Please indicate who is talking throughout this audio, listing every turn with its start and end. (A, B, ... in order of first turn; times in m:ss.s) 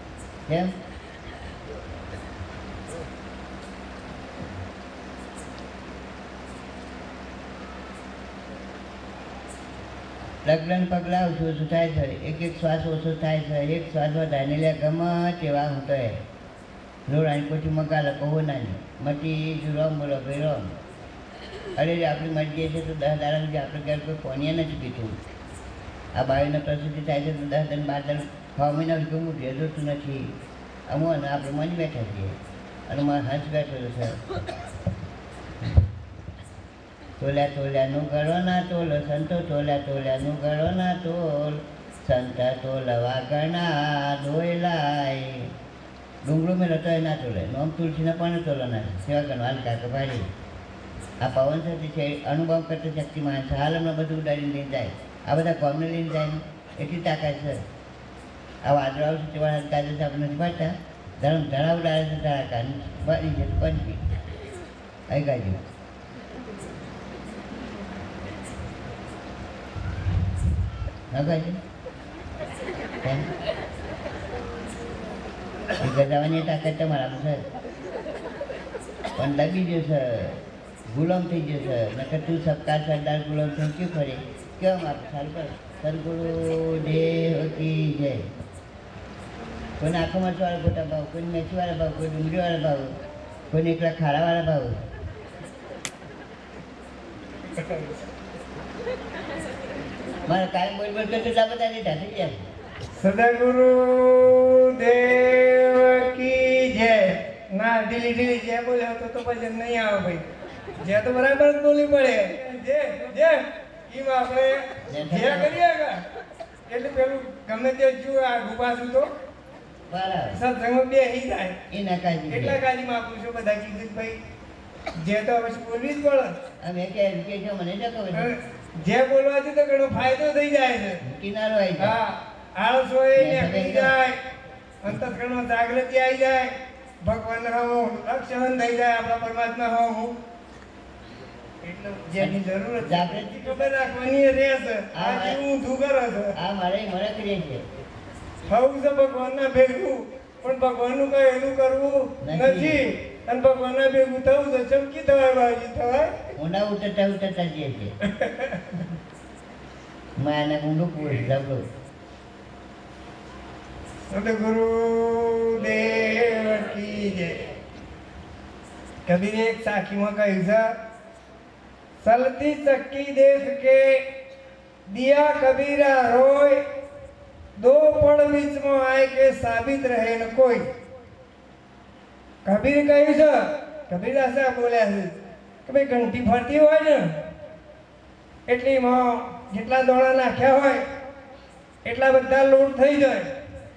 0:00.5-0:00.7 A
0:10.4-0:16.2 A
0:17.1-0:20.7 A
0:21.8-0:25.1 A
0:26.1-0:30.3 A
0:30.9-0:32.4 A
0:32.9-0:34.2 A
0:37.2-0:45.5 A
0:46.2-0:50.3 A
0:51.2-0:57.6 A
0:58.6-1:04.0 A
1:05.1-1:05.6 A
1:11.1-1:11.6 A
1:15.8-1:17.4 A
1:19.2-1:20.4 A
1:20.9-1:28.3 A
1:29.8-1:32.9 A
1:33.5-1:34.7 A
1:37.6-1:37.9 B
1:40.3-1:42.4 A
1:43.0-1:50.2 B
1:50.8-1:56.0 B
1:54.9-1:55.5 A
1:56.7-1:59.1 B
1:59.9-2:00.4 A
2:00.3-2:01.6 B
2:01.7-2:02.6 A
2:02.3-2:04.2 B
2:05.0-2:06.3 B
2:06.6-2:08.3 A
2:08.2-2:11.0 B
2:11.0-2:12.0 A
2:11.8-2:14.1 B
2:13.2-2:13.9 A
2:14.8-2:16.5 B
2:17.0-2:20.1 B
2:21.6-2:26.3 B
2:22.2-2:23.4 A
2:24.9-2:25.4 A
2:26.4-2:27.6 A
2:28.5-2:36.1 B
2:32.2-2:32.8 A
2:36.4-2:37.9 A
2:38.1-2:38.8 B
2:40.2-2:41.6 A
2:44.1-2:47.4 B
2:49.1-2:50.7 B
2:52.0-2:54.0 B
2:54.9-2:56.6 B
2:57.6-3:00.6 B
3:02.4-3:05.1 B
3:05.6-3:07.1 B
3:08.5-3:10.8 B
3:11.8-3:13.3 B